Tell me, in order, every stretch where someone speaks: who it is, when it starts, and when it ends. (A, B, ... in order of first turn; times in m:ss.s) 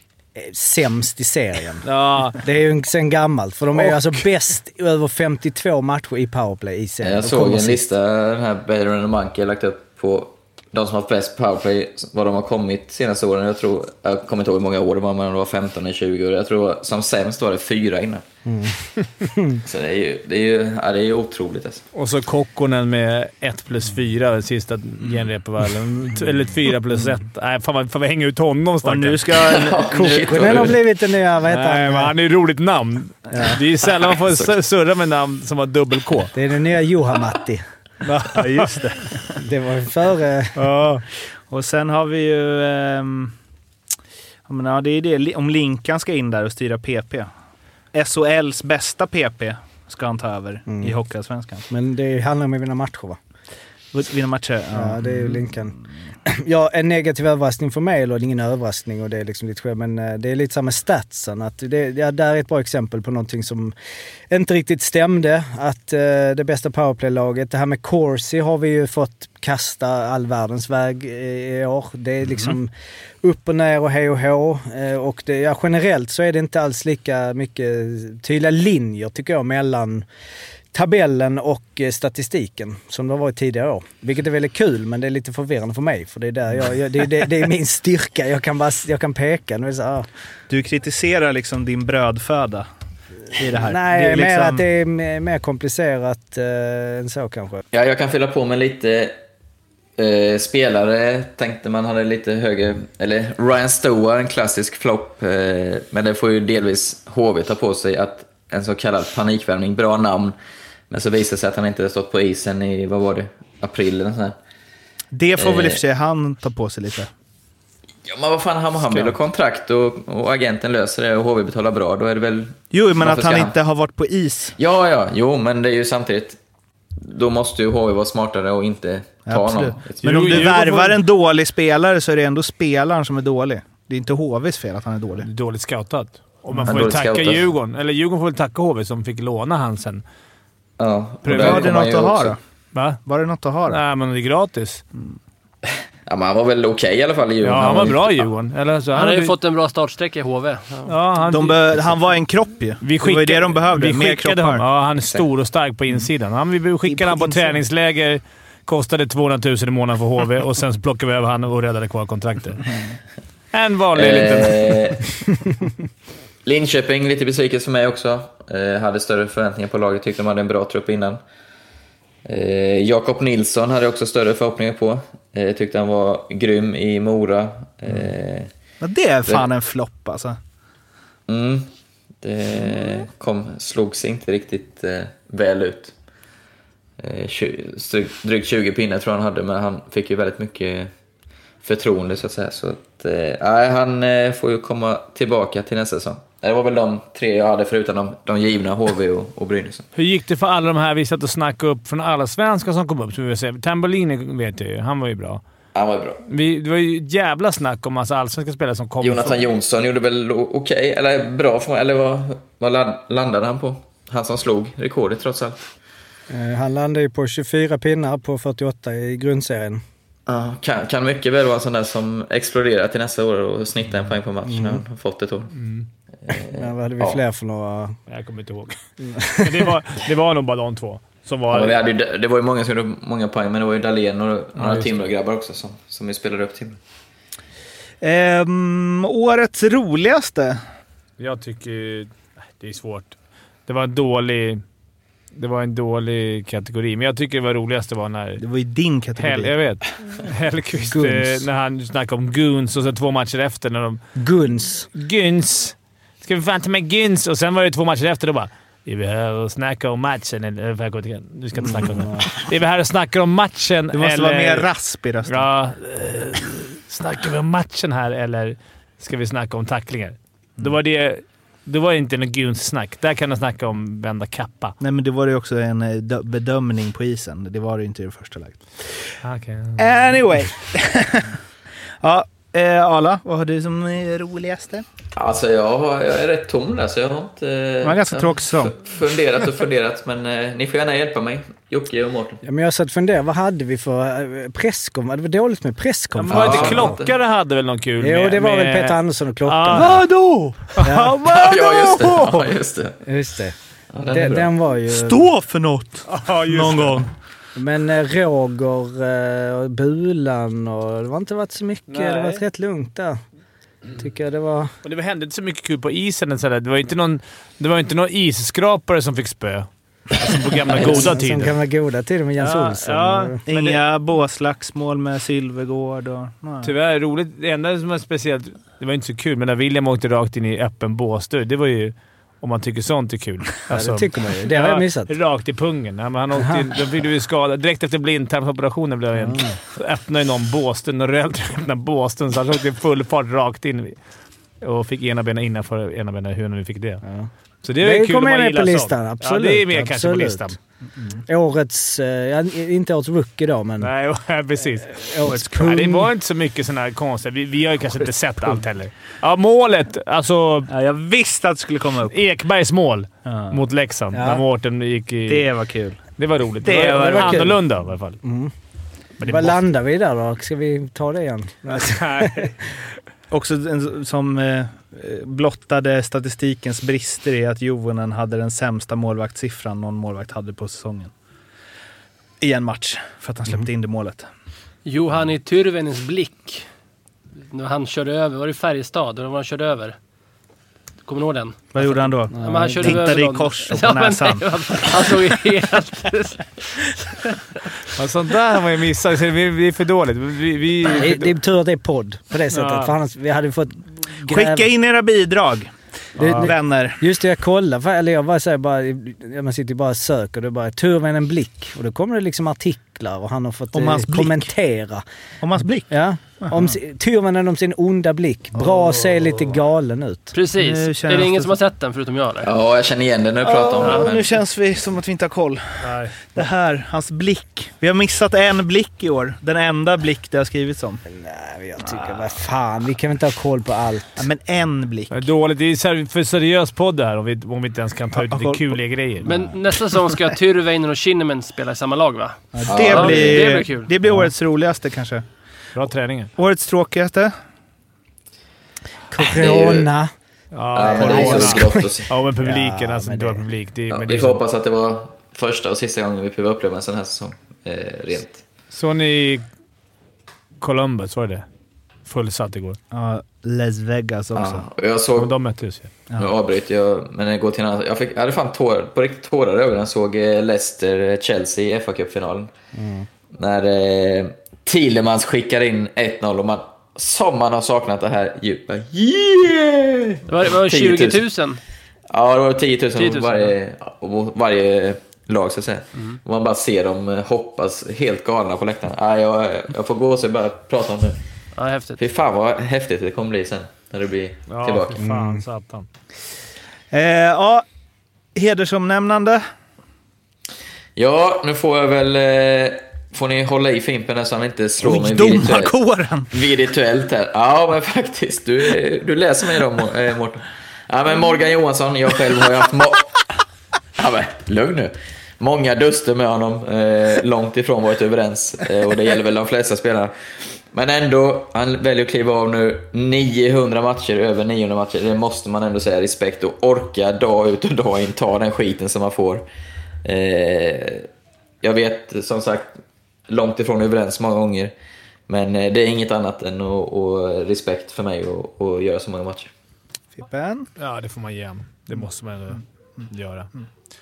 0:00.4-0:07.8 A
0:01.8-0:02.4 B
0:07.0-0:18.2 C
0:18.4-0:19.6 A
0:19.6-0:21.8 C
0:22.0-0:29.2 B
0:28.8-0:30.5 D
0:29.3-0:30.8 C
0:29.9-0:32.1 A
0:31.5-0:36.3 B
0:33.3-0:33.6 A
0:36.3-0:37.6 A
0:38.0-0:38.7 B
0:38.2-0:39.2 D
0:39.4-0:40.6 A
0:40.6-0:41.0 B
0:41.5-0:43.3 D
0:44.5-0:47.3 D
0:47.9-0:51.7 D
0:51.7-0:53.2 A
0:53.9-0:55.5 D
0:54.7-1:03.7 A
1:04.3-1:12.7 A
1:13.2-1:20.1 A
1:20.7-1:30.1 A
1:30.5-1:32.7 D
1:33.3-1:34.6 D
1:33.6-1:37.6 A
1:37.7-1:39.2 C
1:40.0-1:50.4 C
1:50.9-1:54.4 C
1:55.1-1:57.1 D
1:55.4-1:55.8 C
1:58.1-2:03.6 C
1:58.9-1:59.1 B
2:02.7-2:04.6 D
2:04.6-2:06.4 C
2:07.0-2:10.5 C
2:09.3-2:15.3 D
2:10.0-2:11.0 B
2:15.2-2:20.0 B
2:16.6-2:17.4 C
2:20.8-2:22.4 C
2:21.2-2:21.7 B
2:21.2-2:22.4 D
2:22.7-2:23.0 B
2:23.1-2:23.8 D
2:23.7-2:24.8 B
2:26.1-2:28.3 C
2:27.4-2:29.3 B
2:28.9-2:30.9 E
2:30.9-2:31.6 B
2:31.3-2:34.6 D
2:32.8-2:42.7 B
2:36.9-2:37.6 D
2:43.5-2:44.9 B
2:43.9-2:45.1 C
2:46.4-2:51.2 C
2:52.2-2:58.5 C
2:58.8-3:00.4 D
3:01.3-3:01.7 C
3:02.2-3:05.9 C
3:07.0-3:10.9 C
3:11.6-3:19.9 C
3:20.0-3:25.4 B
3:25.8-3:26.2 C
3:26.3-3:29.4 B
3:29.0-3:35.7 C
3:36.3-3:39.8 A
3:40.3-3:45.5 C
3:44.5-3:44.8 A
3:45.5-3:45.9 B
3:46.3-3:47.2 C
3:46.5-3:48.0 A
3:48.1-3:51.8 B
3:49.0-3:49.7 A
3:51.5-3:56.8 C
3:54.6-3:55.1 B
3:58.0-4:00.6 D
4:01.2-4:03.2 B
4:03.7-4:04.6 B
4:05.4-4:08.4 B
4:08.4-4:09.6 D
4:09.2-4:14.0 B
4:10.9-4:11.4 A
4:14.2-4:14.9 A
4:15.0-4:24.7 B
4:21.6-4:22.3 A
4:23.9-4:25.4 D
4:25.3-4:34.8 B
4:34.8-4:38.6 D
4:39.2-4:40.0 B
4:39.8-4:41.4 D
4:42.0-4:44.8 D
4:45.2-4:52.4 C
4:47.8-4:48.8 D
4:52.4-4:57.0 A
4:56.2-5:00.1 B
4:56.3-4:57.1 C
4:58.0-5:00.0 A
4:59.7-5:02.0 D
5:00.7-5:02.4 B
5:00.8-5:01.2 A
5:01.3-5:03.0 C
5:03.0-5:03.6 A
5:03.9-5:04.5 C
5:04.1-5:05.3 A
5:04.9-5:07.1 D
5:06.1-5:07.0 B
5:07.6-5:13.2 A
5:11.9-5:12.4 B
5:14.0-5:14.7 A
5:14.8-5:21.6 B
5:20.7-5:23.4 A
5:22.4-5:23.8 B
5:23.5-5:26.7 D
5:26.6-5:44.0 B
5:33.7-5:35.1 A
5:36.4-5:36.7 A
5:39.2-5:39.6 A
5:44.6-5:47.0 B
5:47.6-5:50.6 B
5:47.8-5:50.5 A
5:51.3-5:53.9 A
5:53.8-6:00.7 B
5:54.9-5:56.1 A
6:00.7-6:02.2 D
6:02.1-6:05.5 B
6:03.2-6:03.6 D
6:04.1-6:04.4 A
6:05.3-6:06.0 D
6:06.2-6:08.2 B
6:06.6-6:07.5 D
6:06.9-6:07.6 A
6:08.2-6:08.5 A
6:09.2-6:12.5 A
6:09.2-6:09.5 B
6:11.7-6:12.5 B
6:13.3-6:21.1 D
6:22.4-6:24.3 D
6:24.9-6:26.7 E
6:27.5-6:30.0 E
6:31.1-6:36.9 E
6:31.7-6:35.2 D
6:32.4-6:33.0 A
6:38.0-6:41.3 B
6:40.9-6:44.7 A
6:42.5-6:42.9 B
6:44.2-6:47.0 D
6:46.2-6:46.5 B
6:46.2-6:55.0 A
6:53.7-6:54.5 D
6:55.4-6:55.9 D
6:55.9-7:00.3 A
6:58.6-6:59.5 B
7:00.3-7:02.5 E
7:00.6-7:01.6 D
7:02.4-7:04.4 C
7:03.4-7:11.0 D
7:05.8-7:06.2 B
7:11.1-7:14.3 A
7:14.2-7:15.3 D
7:15.1-7:19.3 B
7:18.2-7:19.5 D
7:19.3-7:23.9 E
7:22.5-7:25.2 D
7:22.7-7:23.6 C
7:25.8-7:26.3 B
7:26.4-7:27.3 D
7:29.1-7:30.1 A
7:29.2-7:29.9 C
7:30.5-7:34.4 B
7:30.7-7:32.1 C
7:30.8-7:33.4 A
7:33.9-7:38.4 C
7:38.7-7:39.4 B
7:40.6-7:41.4 B
7:42.1-7:42.8 B
7:42.9-7:44.7 D
7:44.4-7:45.3 C
7:45.2-7:45.9 B
7:46.2-7:52.5 C
7:52.7-7:53.1 A
7:53.3-8:01.2 C
8:00.3-8:01.6 E
8:02.1-8:11.2 C
8:03.0-8:03.5 E
8:11.6-8:12.0 E
8:12.0-8:15.0 C
8:14.5-8:15.9 B
8:15.0-8:15.4 A
8:16.9-8:17.6 D
8:18.4-8:19.4 D
8:21.0-8:25.7 C
8:24.8-8:26.3 D
8:26.3-8:33.2 C
8:34.0-8:49.5 C
8:50.0-8:51.1 C
8:51.6-8:52.8 C
8:53.3-8:54.7 C
8:55.3-8:59.5 C
9:00.2-9:00.7 D
9:00.8-9:03.5 B